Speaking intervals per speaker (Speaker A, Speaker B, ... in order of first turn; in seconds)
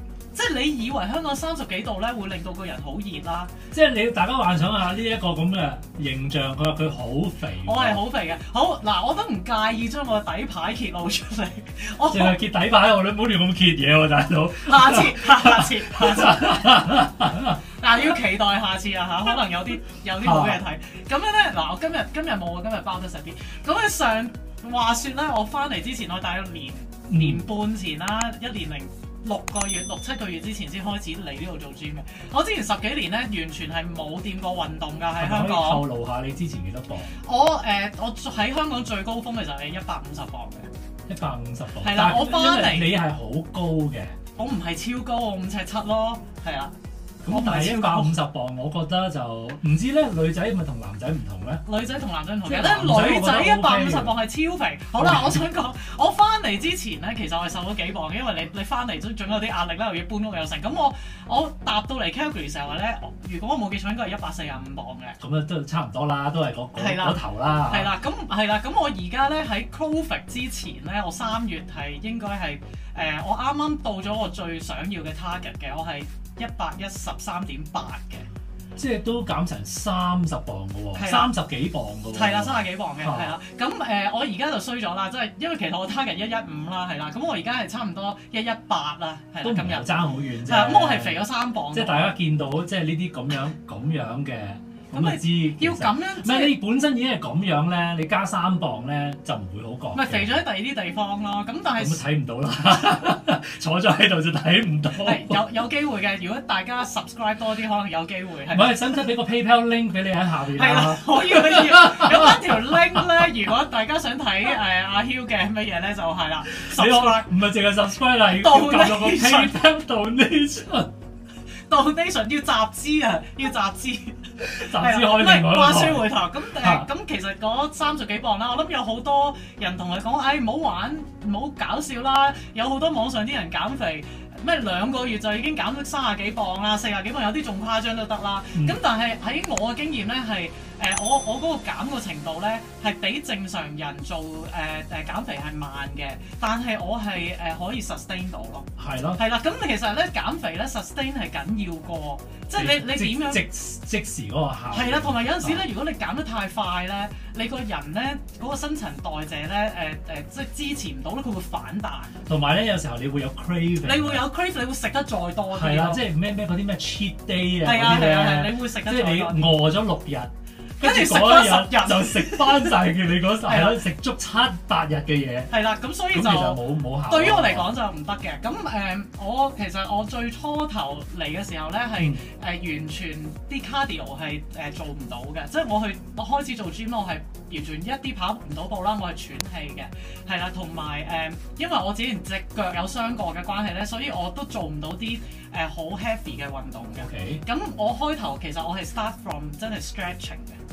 Speaker A: 0.3-3.5, 7.6-12.4, 14.6-35.8, 37.2-40.7, 41.8-42.9, 44.4-46.7, 47.3-48.2, 51.6-65.2, 66.8-78.3, 80.9-81.3, 82.1-92.1, 94.9-96.5, 99.9-102.0, 105.0-108.8, 110.5-117.3, 118.3-119.6, 121.7-153.4, 154.7-162.2, 163.8-166.0, 167.6-169.5, 170.8-173.8, 175.5-200.6
Speaker B: 3.7-8.0, 12.1-17.6, 20.2-20.6, 27.1-27.4, 35.2-37.1, 41.1-44.1, 47.2-51.6, 52.4-54.2, 55.0-55.5, 65.2-67.9, 78.8-83.3, 89.4-100.3, 101.8-105.4, 108.5-113.0, 116.5-120.9, 124.4-126.9, 138.5-138.8, 148.8-149.2, 152.5-155.7, 162.2-164.3, 165.5-177.8, 197.0-197.4